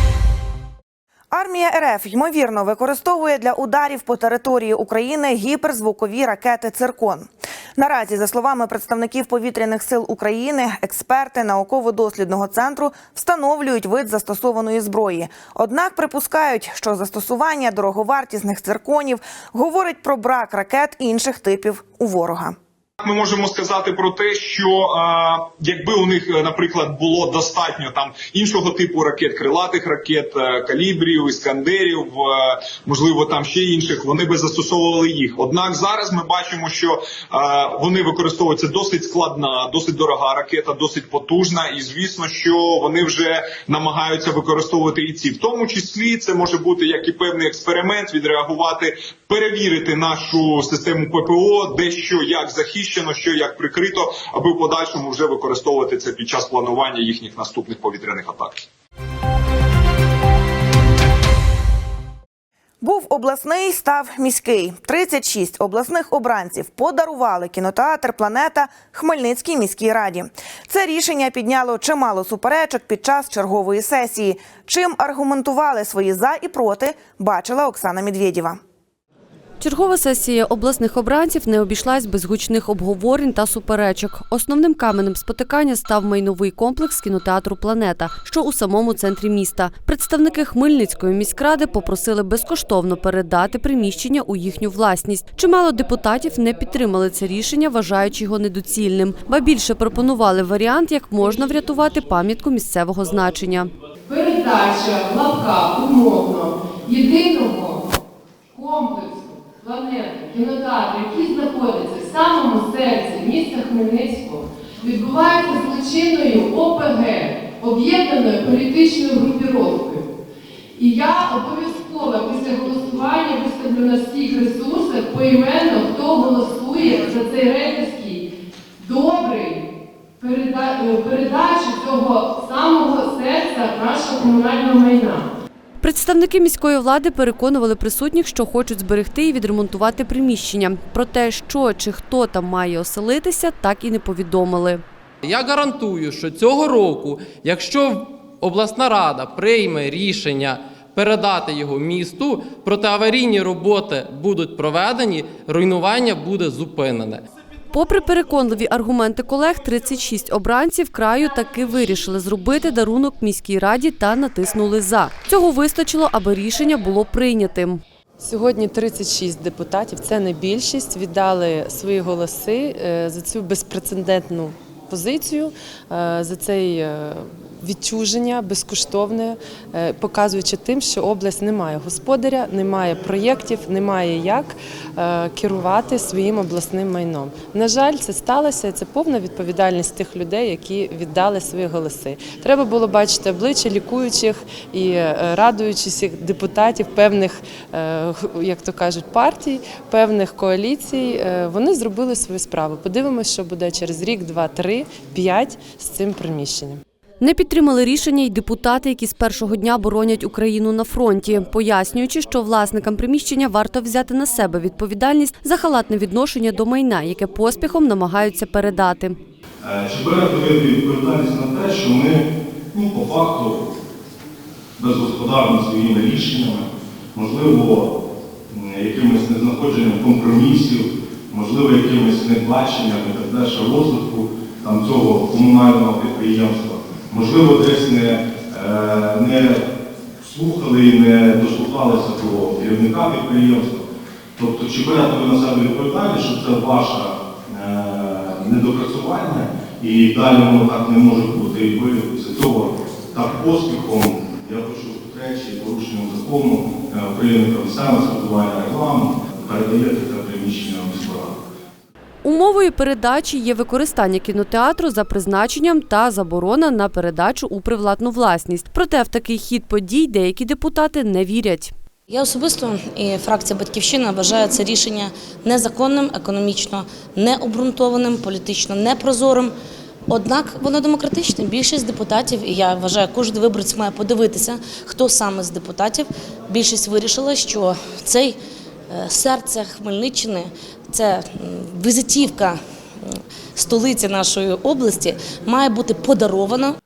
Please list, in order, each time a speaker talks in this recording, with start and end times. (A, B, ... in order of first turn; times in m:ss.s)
0:01.3-0:22.6 A
0:23.0-0:58.6 B
1:02.8-1:18.6 A
1:19.6-1:43.7 C
1:44.2-1:46.3 D
1:46.9-1:47.6 D
1:48.6-1:49.1 D
1:49.6-1:54.3 D
1:54.9-2:00.0 D
2:00.8-2:08.1 D
2:08.9-2:09.5 D
2:10.2-2:15.1 D
2:15.8-2:24.8 C
2:25.2-2:37.2 E
2:37.7-2:47.8 C
2:48.2-3:26.8 F
3:27.2-3:39.2 C
3:39.6-3:43.7 G
3:44.8-3:48.0 G
3:48.5-3:59.6 G
4:00.2-4:03.8 G
4:04.4-4:21.4 G
4:22.2-4:31.7 C
4:32.1-4:39.5 H
4:40.1-4:48.4 H
4:48.9-4:56.8 H